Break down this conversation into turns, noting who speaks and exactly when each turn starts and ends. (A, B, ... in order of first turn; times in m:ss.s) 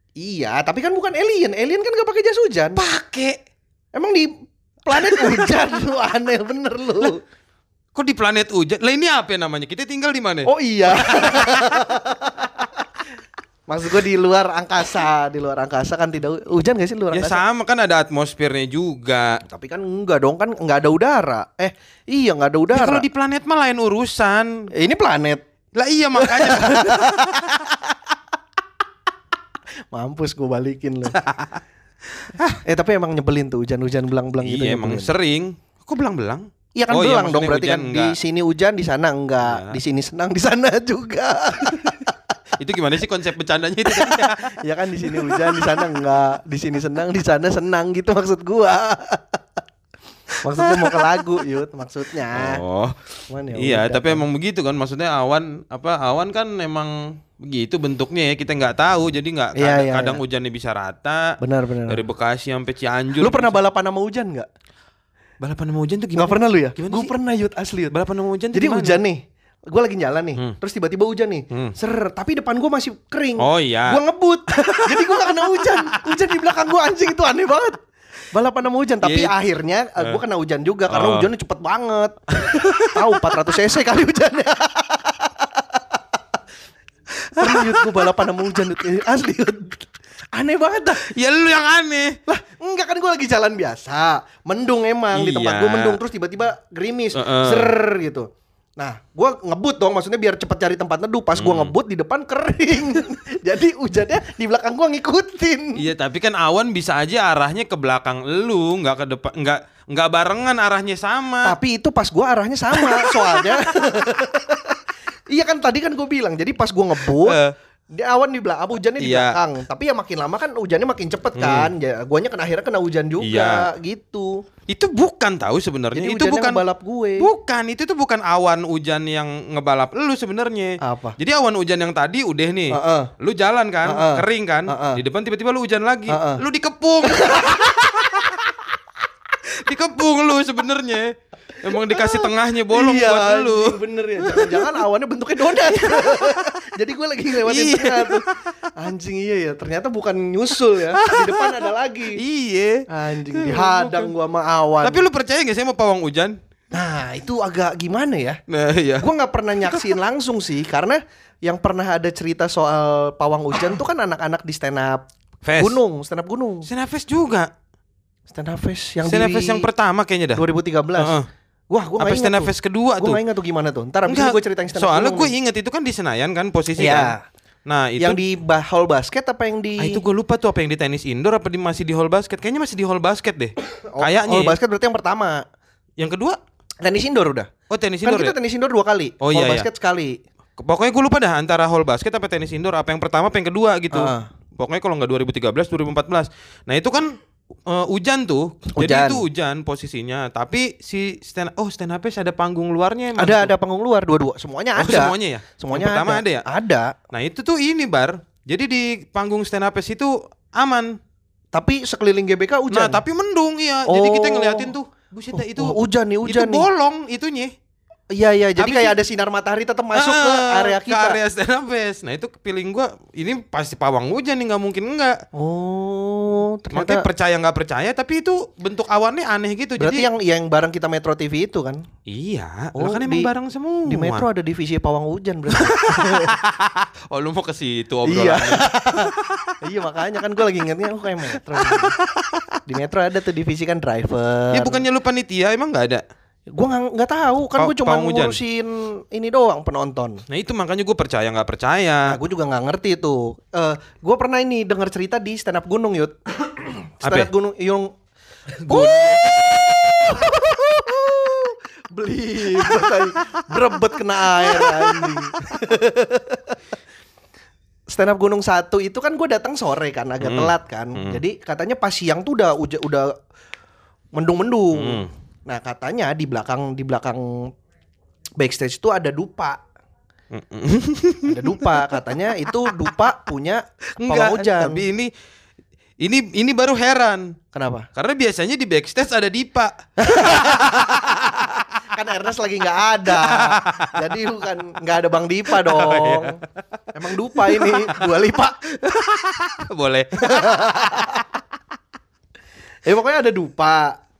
0:00.2-0:02.8 A
0:02.8-0:03.4 B
0:03.9-0:04.3 A
0:04.8-0:07.2 A
0:04.9-0:05.6 B
0:07.9-0:11.8 B
0:10.4-0:12.7 A
0:13.7-0:17.4 A
0:17.1-0:19.4 B
0:19.4-0:23.0 A
0:22.7-0:24.7 B
0:24.7-0:25.4 A
0:25.7-0:27.5 B
0:26.1-0:27.9 A
0:29.9-0:31.2 A
0:31.1-0:31.6 B
0:32.2-0:32.6 B
0:32.6-0:35.1 A
0:34.4-0:38.2 B
0:36.8-0:42.1 A
0:39.4-0:39.8 B
0:42.6-0:44.4 B
0:43.8-0:49.4 A
0:45.0-0:46.0 B
0:50.4-0:52.6 A
0:50.6-0:51.4 B
0:52.3-1:01.4 B
0:53.3-0:54.2 A
0:59.6-1:00.2 A
1:01.4-1:02.0 A
1:01.9-1:03.6 B
1:03.2-1:04.5 A
1:05.4-1:07.1 B
1:06.2-1:07.9 A
1:07.9-1:09.0 B
1:08.5-1:26.0 A
1:13.4-1:16.2 B
1:19.0-1:19.3 B
1:20.9-1:21.3 B
1:22.3-1:23.4 B
1:27.1-1:28.2 B
1:27.4-1:31.0 A
1:31.0-1:32.2 B
1:32.3-1:45.9 A
1:35.1-1:36.0 B
1:37.1-1:37.7 B
1:41.4-1:41.7 B
1:45.8-1:51.6 B
1:51.4-1:57.4 A
1:52.7-1:53.7 B
1:57.1-1:57.5 B
1:57.9-2:04.4 A
1:59.0-1:59.4 B
2:01.3-2:01.7 B
2:03.2-2:03.7 B
2:04.7-2:06.6 B
2:05.9-2:07.3 A
2:07.2-2:18.4 B
2:10.8-2:11.2 A
2:12.7-2:13.1 A
2:13.8-2:15.0 A
2:16.1-2:16.4 A
2:17.0-2:18.1 A
2:19.4-2:24.8 B
2:21.7-2:32.2 A
2:25.7-2:26.6 B
2:27.4-2:28.7 B
2:30.9-2:34.1 B
2:32.9-2:35.0 A
2:34.8-2:36.4 B
2:36.7-2:38.4 A
2:38.5-2:39.1 B
2:39.0-2:46.7 A
2:39.6-2:40.0 B
2:45.4-2:45.8 B
2:46.6-2:47.5 B
2:48.3-2:49.7 A
2:49.0-2:50.4 B
2:50.3-2:51.2 A
2:51.0-2:51.3 B
2:51.7-2:55.3 A
2:52.0-2:53.2 B
2:54.0-2:57.1 B
2:56.8-2:57.2 A
2:57.6-2:58.2 B
2:58.0-3:00.0 A
2:59.8-3:04.6 B
3:03.9-3:05.4 A
3:06.0-3:06.4 B
3:06.8-3:07.5 A
3:07.7-3:08.3 B
3:08.0-3:10.2 A
3:09.2-3:09.7 B
3:10.6-3:23.5 B
3:13.9-3:14.3 A
3:18.8-3:19.2 A
3:23.2-3:26.9 A
3:24.7-3:26.4 B
3:27.1-3:31.0 B
3:31.5-3:33.0 A
3:32.7-3:37.5 B
3:33.9-3:34.7 A
3:35.3-3:36.7 A
3:38.1-3:41.2 A
3:38.6-3:39.0 B
3:39.9-3:45.2 B
3:45.3-3:47.1 A
3:46.7-3:50.1 B
3:49.8-3:51.8 A
3:52.1-3:54.2 B
3:52.8-3:53.3 A
3:53.8-3:56.4 A
3:55.5-3:59.6 B
3:58.0-4:02.0 A
4:01.5-4:02.5 B
4:02.6-4:04.8 A
4:04.5-4:06.0 B
4:06.5-4:10.2 A
4:07.6-4:08.4 B
4:10.3-4:12.1 B
4:12.1-4:17.9 A
4:17.0-4:17.3 B
4:18.6-4:20.3 B
4:18.6-4:26.6 A
4:22.5-4:23.7 B
4:24.3-4:25.6 B
4:27.9-4:33.1 A
4:30.2-4:31.2 B
4:34.1-4:37.5 A
4:34.7-4:35.1 B
4:38.4-4:39.6 A
4:40.3-4:42.9 B
4:41.2-4:44.8 A
4:44.0-4:45.1 B
4:46.0-4:47.4 B
4:47.5-4:47.9 A
4:47.9-4:51.7 B
4:50.0-4:51.0 A
4:51.9-4:56.4 A
4:53.0-4:54.2 B
4:55.5-4:56.5 B
4:56.9-4:58.6 A
4:57.3-5:01.2 B
5:00.1-5:01.3 A
5:02.8-5:04.0 A